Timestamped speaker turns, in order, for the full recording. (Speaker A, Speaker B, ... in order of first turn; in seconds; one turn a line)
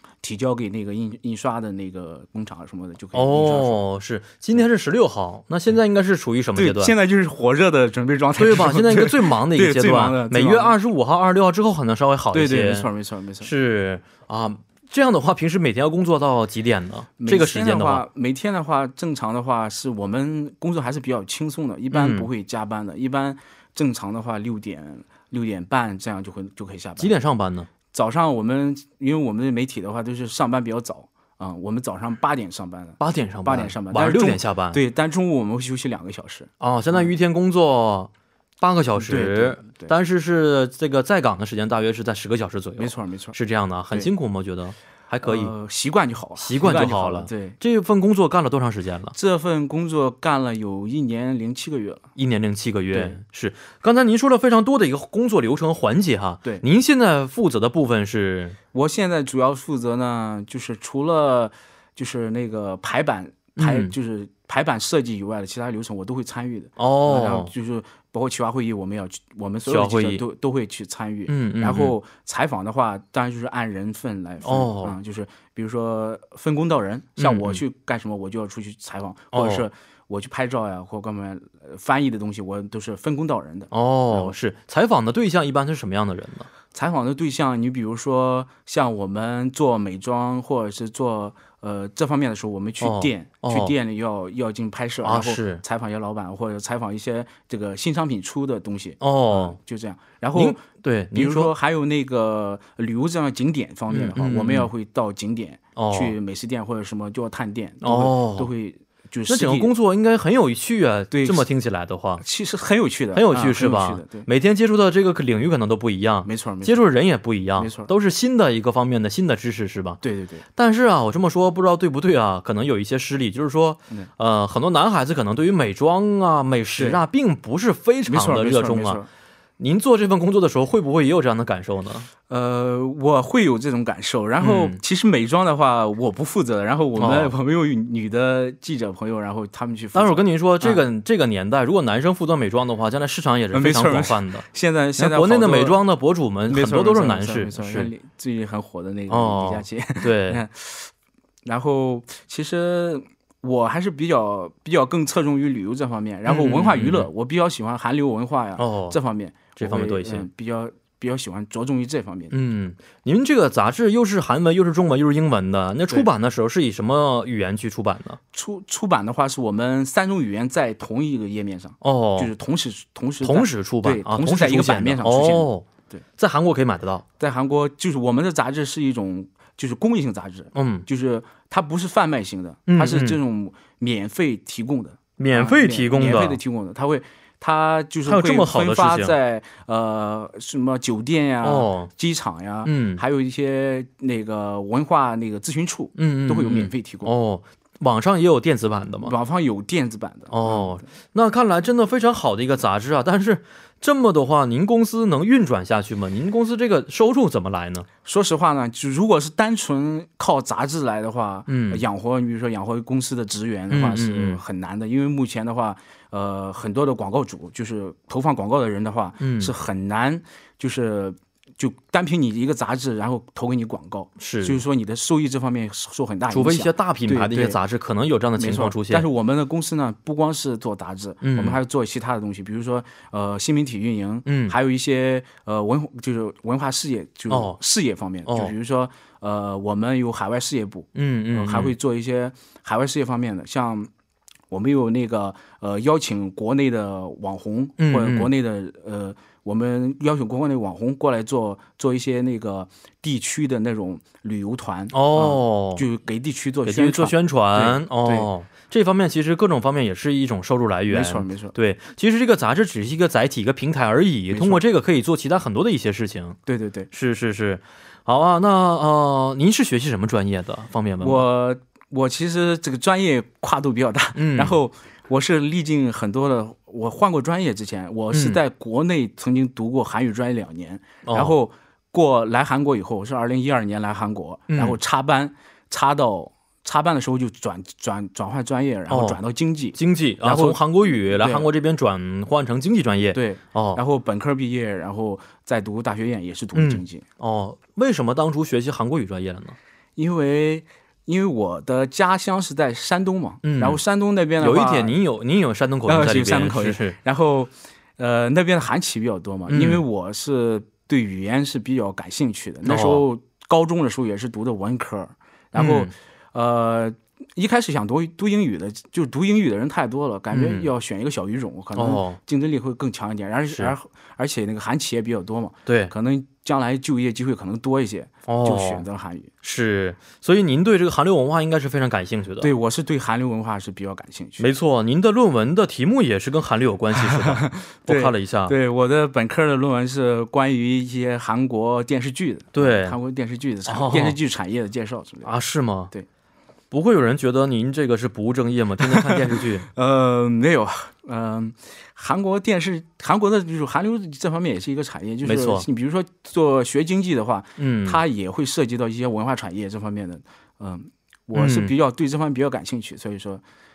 Speaker A: 0.2-3.8
Speaker B: 3.1-7.0
Speaker A: 6.6-10.8
Speaker B: 8.4-12.9
Speaker A: 12.3-13.5
Speaker B: 13.4-18.1
Speaker A: 17.2-27.1
Speaker B: 21.9-22.3
Speaker B: 27.0-27.7
Speaker A: 27.9-37.1
Speaker B: 33.0-34.8
Speaker B: 36.6-45.5
Speaker A: 39.0-39.9
Speaker A: 42.8-43.4
Speaker A: 45.2-47.6
Speaker B: 46.4-49.1
Speaker A: 49.1-52.1
Speaker B: 52.2-58.6
Speaker A: 52.9-53.2
Speaker A: 58.7-84.3
Speaker B: 63.6-63.9
Speaker B: 66.8-67.5
Speaker B: 69.7-70.2
Speaker B: 71.3-72.0
Speaker B: 74.4-75.0
Speaker B: 77.2-77.6
Speaker B: 79.3-79.7
Speaker B: 83.7-86.5
Speaker A: 86.7-100.6
Speaker B: 92.8-93.7
Speaker B: 95.0-95.6
Speaker B: 99.0-99.6
Speaker B: 100.3-101.5
Speaker A: 101.1-109.7
Speaker B: 103.9-104.7
Speaker B: 105.8-106.2
Speaker B: 107.8-108.5
Speaker B: 109.3-112.2
Speaker A: 111.1-111.5
Speaker A: 112.2-114.3
Speaker B: 113.1-120.0
Speaker A: 116.2-116.8
Speaker A: 117.6-117.9
Speaker A: 120.0-120.5
Speaker B: 120.6-129.0
Speaker A: 128.1-129.1
Speaker B: 129.6-132.1
Speaker A: 132.3-140.8
Speaker B: 134.4-134.8
Speaker B: 137.0-137.3
Speaker B: 139.9-144.4
Speaker A: 143.5-145.8
Speaker B: 145.0-147.9
Speaker A: 146.5-150.9
Speaker B: 149.1-150.4
Speaker A: 151.4-162.3
Speaker B: 156.3-157.1
Speaker B: 158.6-159.0
Speaker B: 159.6-160.3
Speaker B: 162.3-168.2
Speaker A: 168.3-176.0
Speaker B: 171.8-172.3
Speaker B: 173.2-177.0
Speaker A: 177.2-197.1
Speaker B: 180.6-180.9
Speaker B: 182.7-183.2
Speaker B: 185.2-186.4
Speaker B: 188.1-189.1
Speaker B: 191.4-191.9
Speaker B: 192.7-193.0
Speaker B: 196.0-199.1
Speaker A: 199.0-200.9
Speaker B: 200.3-207.9
Speaker A: 208.1-227.6
Speaker B: 211.5-211.8
Speaker B: 213.7-214.4
Speaker B: 219.2-219.5
Speaker B: 224.2-224.6
Speaker B: 226.3-229.1
Speaker A: 228.4-243.9
Speaker B: 231.2-231.6
Speaker B: 234.3-234.6
Speaker B: 237.3-237.6
Speaker B: 238.3-238.5
Speaker B: 240.9-241.8
Speaker A: 244.5-258.3
Speaker B: 247.8-248.3
Speaker B: 254.9-255.8
Speaker B: 256.7-266.4
Speaker A: 260.9-261.6
Speaker A: 264.3-264.6
Speaker A: 266.5-266.9
Speaker B: 266.9-271.2
Speaker A: 271.0-291.5
Speaker B: 274.2-274.6
Speaker B: 278.1-278.4
Speaker B: 281.1-281.4
Speaker B: 284.5-284.8
Speaker B: 288.9-289.2
Speaker B: 289.8-293.8
Speaker A: 293.1-297.0
Speaker B: 296.6-299.6
Speaker A: 300.0-304.9
Speaker B: 303.4-303.8
Speaker B: 304.4-307.0
Speaker A: 305.9-329.3
Speaker B: 309.5-309.8
Speaker B: 312.6-313.1
Speaker B: 315.6-315.9
Speaker B: 320.3-320.7
Speaker B: 321.8-322.2
Speaker B: 325.7-325.9
Speaker B: 328.3-328.9
Speaker B: 329.4-332.5
Speaker A: 332.4-334.5
Speaker B: 334.4-338.6
Speaker A: 336.9-345.3
Speaker B: 342.5-343.0
Speaker B: 343.7-344.2
Speaker B: 345.2-345.9
Speaker B: 346.7-349.7
Speaker A: 348.8-363.4
Speaker B: 355.2-355.7
Speaker B: 357.6-358.0
Speaker B: 361.3-361.7